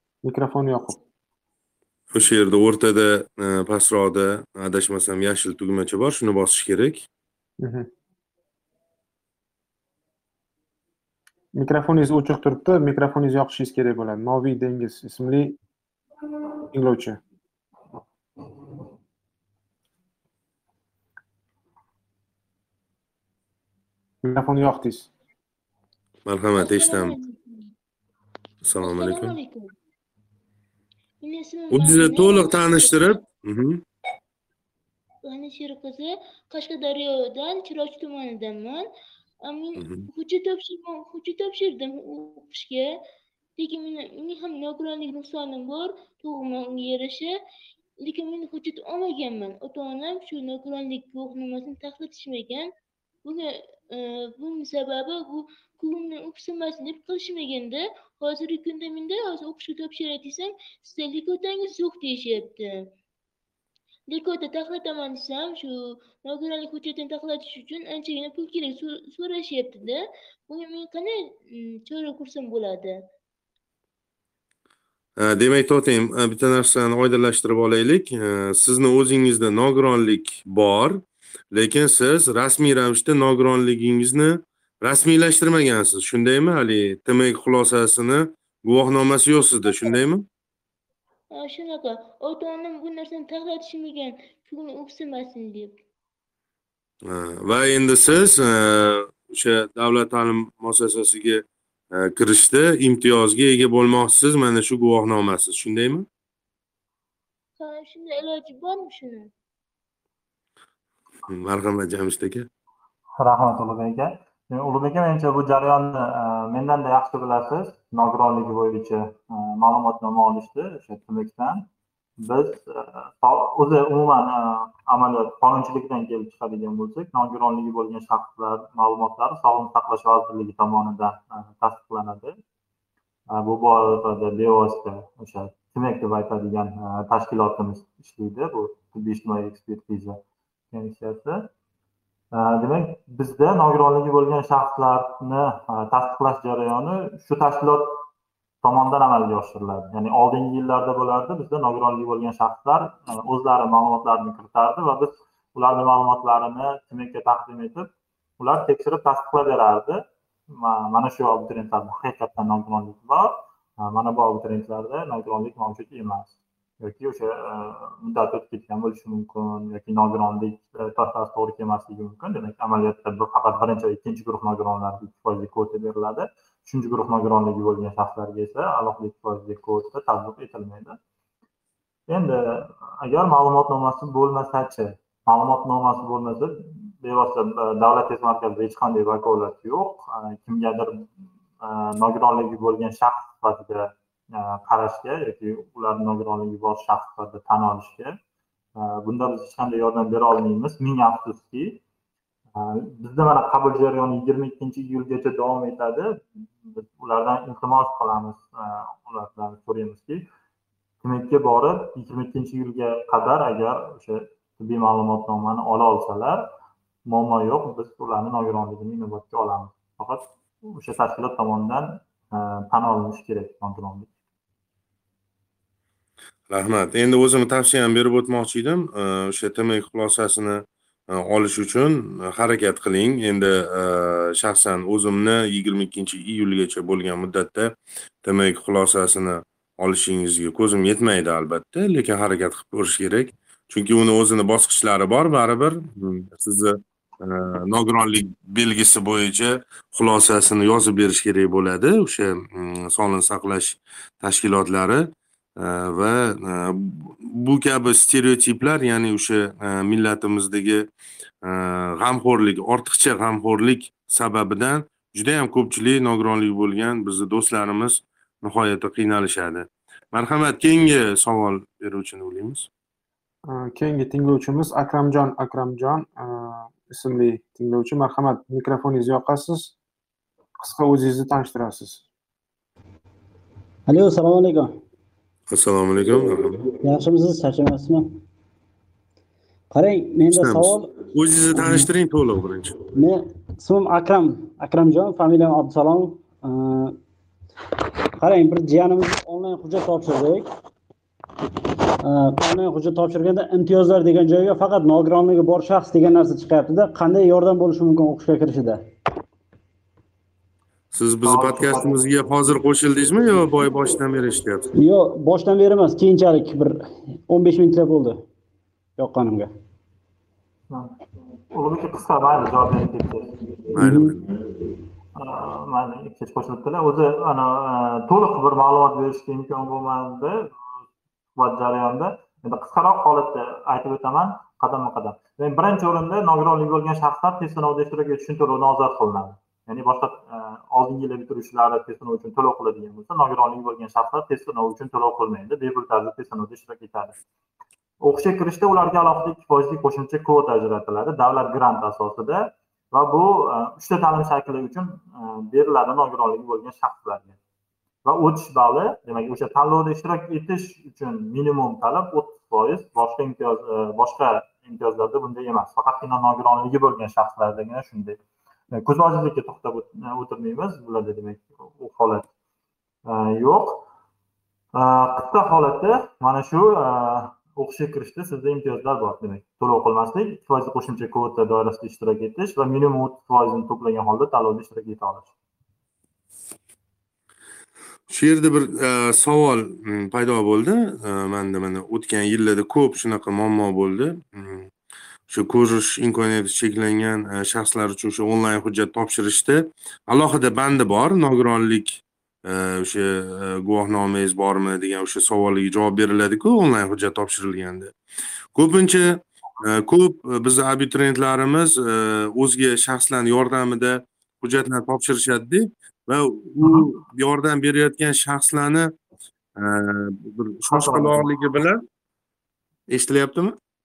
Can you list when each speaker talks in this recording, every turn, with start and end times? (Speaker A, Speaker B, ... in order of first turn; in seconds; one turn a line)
Speaker A: 0.2-1.0
Speaker B: 2.1-7.1
Speaker A: 7.6-7.9
Speaker A: 11.5-15.6
Speaker A: 16.7-17.2
Speaker A: 24.2-25.1
Speaker B: 26.2-27.1
Speaker C: 26.6-27.7
Speaker B: 28.6-29.4
Speaker C: 28.8-29.7
Speaker C: 31.2-33.2
Speaker B: 31.7-33.8
Speaker C: 35.2-38.9
Speaker C: 39.4-43.0
Speaker B: 39.8-40.0
Speaker C: 43.6-47.3
Speaker C: 48.0-52.7
Speaker C: 53.2-62.9
Speaker C: 64.1-73.0
Speaker B: 75.2-90.2
Speaker C: 91.3-95.7
Speaker B: 97.0-106.1
Speaker C: 107.6-109.3
Speaker B: 111.2-112.5
Speaker D: 113.2-121.7
Speaker D: 122.2-132.4
Speaker D: 133.3-140.2
Speaker D: 140.7-141.5
Speaker D: 142.3-148.0
Speaker D: 148.6-157.9
Speaker D: 158.4-181.0
Speaker D: 182.1-191.1
Speaker D: 191.6-198.1
Speaker D: 198.8-201.8
Speaker D: 202.6-210.3
Speaker D: 211.0-216.5
Speaker D: 217.1-224.1
Speaker B: 226.5-260.9
Speaker B: 261.4-272.7
Speaker A: 273.5-279.8
Speaker A: 280.6-282.0
Speaker E: 283.9-284.7
Speaker B: 285.5-286.7
Speaker E: 286.8-288.2
Speaker E: 289.7-291.9
Speaker B: 290.3-292.8
Speaker E: 292.9-297.0
Speaker E: 298.2-300.5
Speaker E: 302.0-308.9
Speaker B: 310.9-314.7
Speaker D: 311.2-312.0
Speaker E: 314.8-318.2
Speaker E: 319.0-319.5
Speaker D: 320.7-323.5
Speaker B: 323.7-324.4
Speaker E: 323.8-324.1
Speaker D: 325.1-330.5
Speaker D: 331.4-347.1
Speaker D: 348.0-357.4
Speaker D: 358.0-368.2
Speaker D: 368.7-372.3
Speaker D: 373.1-373.9
Speaker D: 374.8-385.3
Speaker B: 388.1-394.7
Speaker B: 395.3-407.9
Speaker B: 408.5-418.9
Speaker D: 416.6-416.9
Speaker B: 419.6-421.8
Speaker D: 420.7-421.3
Speaker B: 422.9-423.6